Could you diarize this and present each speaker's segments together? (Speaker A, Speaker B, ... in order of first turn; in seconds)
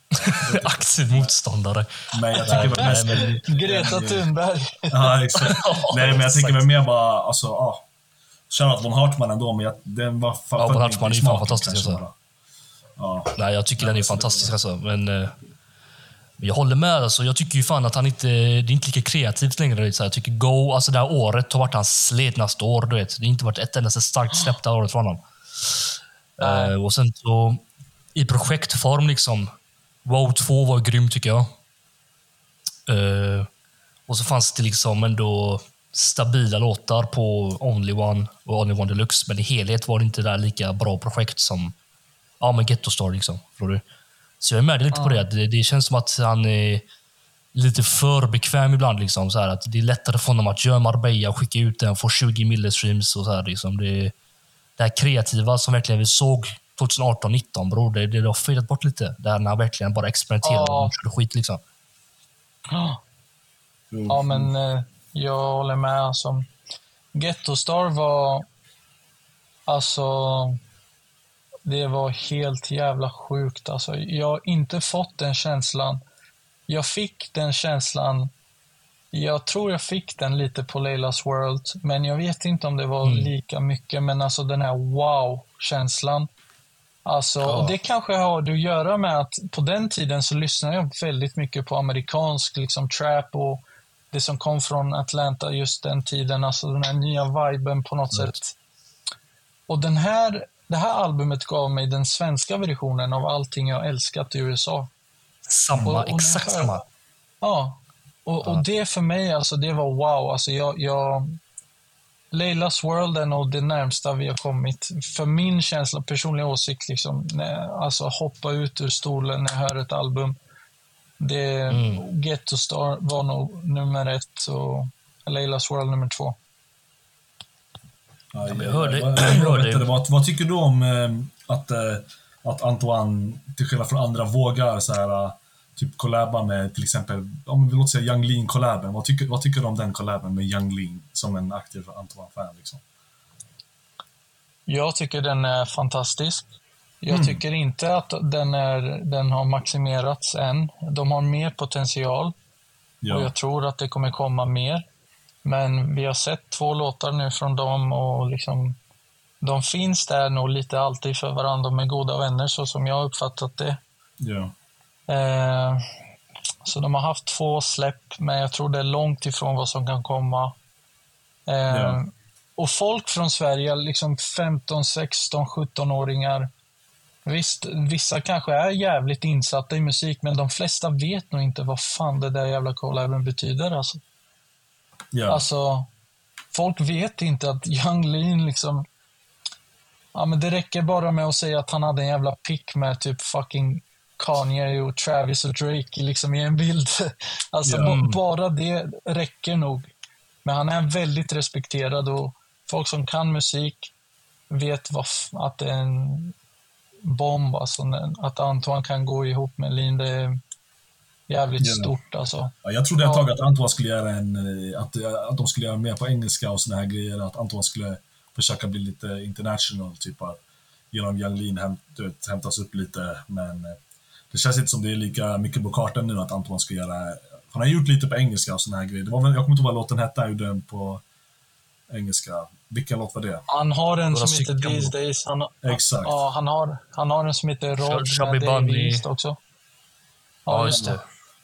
Speaker A: 0.1-1.3, 2.1-4.3, 4.9-7.8, 8.5-12.1, 13.0-14.6, 63.9-64.5, 128.3-142.8, 147.1-147.4, 153.0-153.3, 164.2-164.5, 171.7-172.0, 185.1-185.4, 197.6-198.0, 211.6-211.9, 212.6-220.4, 220.9-223.8, 224.3-231.0, 231.9-233.4, 235.6-236.2, 240.7-241.0
Speaker B: 0.2-3.4, 5.4-6.6, 10.6-12.0, 13.3-15.3, 16.4-25.8, 26.4-27.6, 28.1-29.5, 30.0-31.5, 32.9-33.5, 34.1-41.7, 42.4-43.8, 44.4-46.8, 47.5-54.1, 54.8-61.6, 83.0-83.3, 87.4-87.7, 105.5-106.8, 121.7-122.0, 128.4-129.9, 197.8-198.2, 234.1-234.9, 237.8-239.0, 240.5-241.0
Speaker C: 2.5-5.1, 26.4-26.7, 44.9-45.3, 60.4-60.9, 62.7-63.0, 64.1-66.5, 67.1-68.5, 69.7-70.6, 71.6-76.0, 76.7-78.3, 79.1-86.3, 87.0-98.5, 99.7-104.9, 105.8-106.7, 107.4-111.4, 112.3-120.3, 121.2-126.3, 144.7-146.5, 147.0-152.3, 153.1-154.8, 155.4-158.8, 159.4-163.8, 165.1-165.8, 166.6-170.5, 171.5-176.5, 177.2-184.0, 185.3-185.9, 186.5-188.8, 190.1-199.9, 200.4-203.9, 204.5-206.3, 207.0-210.4, 211.3-213.3, 233.5-239.4, 240.4-240.9